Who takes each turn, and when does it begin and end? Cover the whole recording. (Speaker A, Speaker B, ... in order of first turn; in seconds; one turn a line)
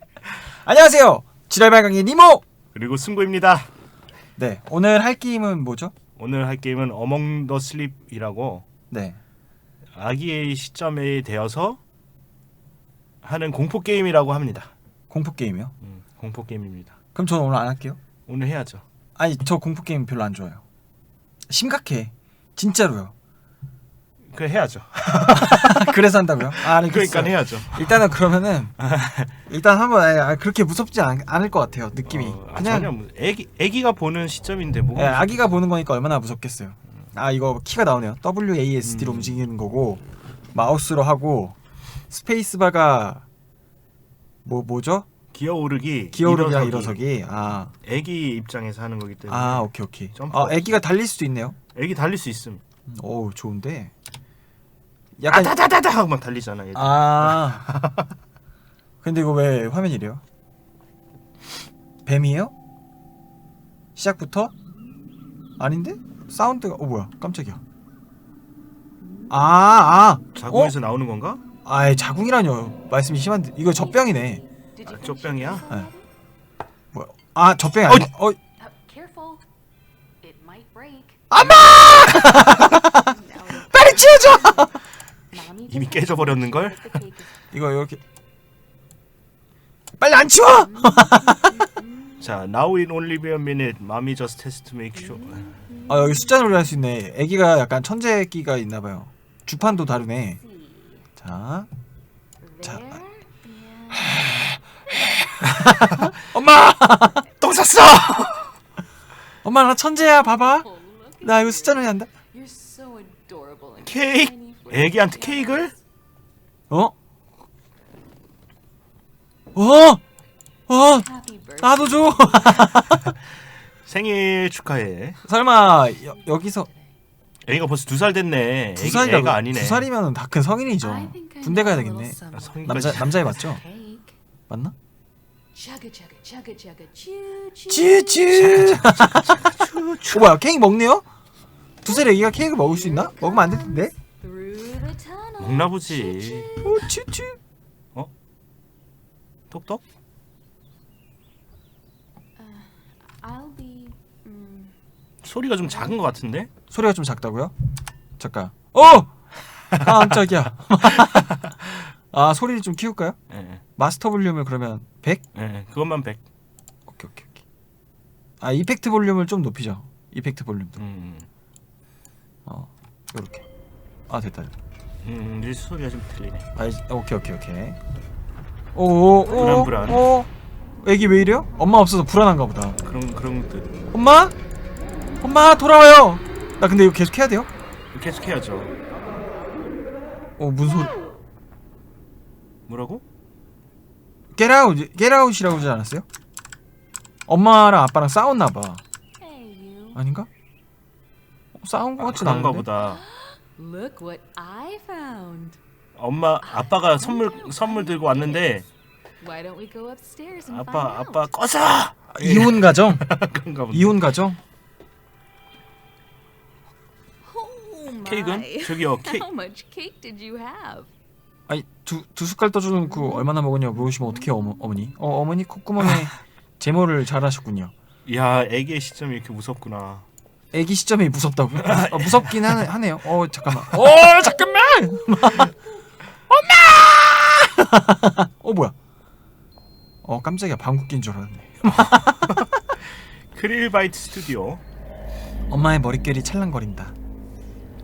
Speaker A: 0.5-2.4
Speaker B: 2.7-3.7
Speaker A: 4.4-5.9
Speaker B: 6.2-8.6
Speaker A: 8.9-9.2
Speaker B: 9.9-11.8
Speaker B: 13.2-14.7
Speaker A: 15.1-15.7
Speaker B: 15.8-16.9
Speaker A: 17.1-18.0
Speaker B: 18.3-18.8
Speaker A: 19.1-20.6
Speaker A: 21.5-23.1
Speaker B: 24.3-25.8
Speaker A: 25.4-28.7
Speaker B: 26.6-28.2
Speaker B: 28.8-29.3
Speaker A: 29.5-32.9
Speaker B: 32.0-35.4
Speaker A: 34.9-40.0
Speaker B: 38.8-39.4
Speaker A: 40.5-41.5
Speaker A: 42.1-43.2
Speaker A: 44.4-45.0
Speaker B: 45.3-47.0
Speaker A: 46.1-47.7
Speaker B: 47.8-50.8
Speaker A: 49.3-51.5
Speaker B: 51.7-52.6
Speaker A: 52.9-53.9
Speaker A: 55.2-55.5
Speaker B: 55.3-58.1
Speaker A: 56.7-57.7
Speaker A: 59.0-60.2
Speaker A: 62.0-62.5
Speaker A: 64.0-64.5
Speaker A: 65.6-67.6
Speaker C: 69.0-69.7
Speaker A: 69.3-70.7
Speaker B: 70.3-71.4
Speaker A: 71.6-74.4
Speaker C: 73.6-76.1
Speaker B: 74.8-75.7
Speaker A: 76.9-78.4
Speaker C: 78.6-79.4
Speaker C: 80.2-87.6
Speaker A: 81.3-84.8
Speaker B: 85.7-87.0
Speaker A: 87.5-88.0
Speaker A: 90.0-91.7
Speaker C: 90.5-92.5
Speaker B: 92.2-95.6
Speaker C: 94.9-96.7
Speaker A: 95.9-100.4
Speaker C: 100.2-101.1
Speaker A: 101.2-101.7
Speaker C: 102.4-104.2
Speaker A: 102.6-103.0
Speaker A: 104.0-104.6
Speaker A: 105.3-107.3
Speaker B: 107.4-108.5
Speaker A: 109.4-110.7
Speaker C: 110.0-115.8
Speaker A: 111.2-112.1
Speaker B: 113.8-115.7
Speaker A: 119.5-120.0
Speaker A: 120.7-121.1
Speaker C: 120.8-122.7
Speaker A: 121.6-123.1
Speaker B: 123.8-125.2
Speaker A: 125.2-126.7
Speaker C: 125.9-126.9
Speaker B: 127.5-129.9
Speaker A: 128.8-133.6
Speaker C: 130.8-134.1
Speaker B: 132.3-133.4
Speaker A: 134.5-134.7
Speaker C: 135.5-138.6
Speaker A: 137.7-139.5
Speaker B: 138.3-140.4
Speaker A: 140.1-141.1
Speaker A: 141.8-143.9
Speaker C: 141.8-147.0
Speaker B: 145.4-146.5
Speaker A: 146.6-147.4
Speaker B: 149.5-149.8
Speaker C: 152.4-154.8
Speaker B: 155.2-156.5
Speaker C: 155.6-156.0
Speaker A: 156.7-157.5
Speaker A: 158.2-159.1
Speaker B: 159.7-160.0
Speaker A: 159.8-163.2
Speaker B: 161.0-161.5
Speaker B: 163.3-163.6
Speaker A: 163.8-165.2
Speaker B: 165.3-166.2
Speaker A: 166.9-167.4
Speaker A: 168.4-170.8
Speaker B: 170.8-171.3
Speaker A: 172.4-173.4
Speaker A: 174.1-174.5
Speaker B: 175.0-176.5
Speaker A: 176.6-177.8
Speaker A: 178.7-180.3
Speaker B: 179.2-180.1
Speaker A: 180.8-182.8
Speaker B: 182.8-183.8
Speaker A: 183.9-184.3
Speaker A: 185.2-187.5
Speaker B: 187.9-188.7
Speaker A: 190.4-191.0
Speaker B: 192.7-193.0
Speaker A: 194.3-196.0
Speaker A: 197.3-198.8
Speaker C: 199.2-200.0
Speaker A: 199.9-200.3
Speaker A: 201.5-202.7
Speaker B: 202.0-203.0
Speaker C: 202.8-205.6
Speaker B: 206.0-208.6
Speaker C: 206.4-208.7
Speaker C: 209.2-211.3
Speaker B: 210.4-214.0
Speaker A: 212.1-213.1
Speaker A: 213.7-214.4
Speaker C: 217.2-220.9
Speaker B: 218.0-219.2
Speaker A: 221.5-227.7
Speaker C: 222.9-223.3
Speaker C: 223.9-224.7
Speaker B: 228.1-230.1
Speaker A: 230.5-235.5
Speaker B: 231.6-232.6
Speaker B: 233.5-233.8
Speaker A: 236.3-238.7
Speaker A: 240.0-242.5
Speaker B: 241.8-242.5
Speaker B: 243.3-244.6
Speaker A: 245.5-246.9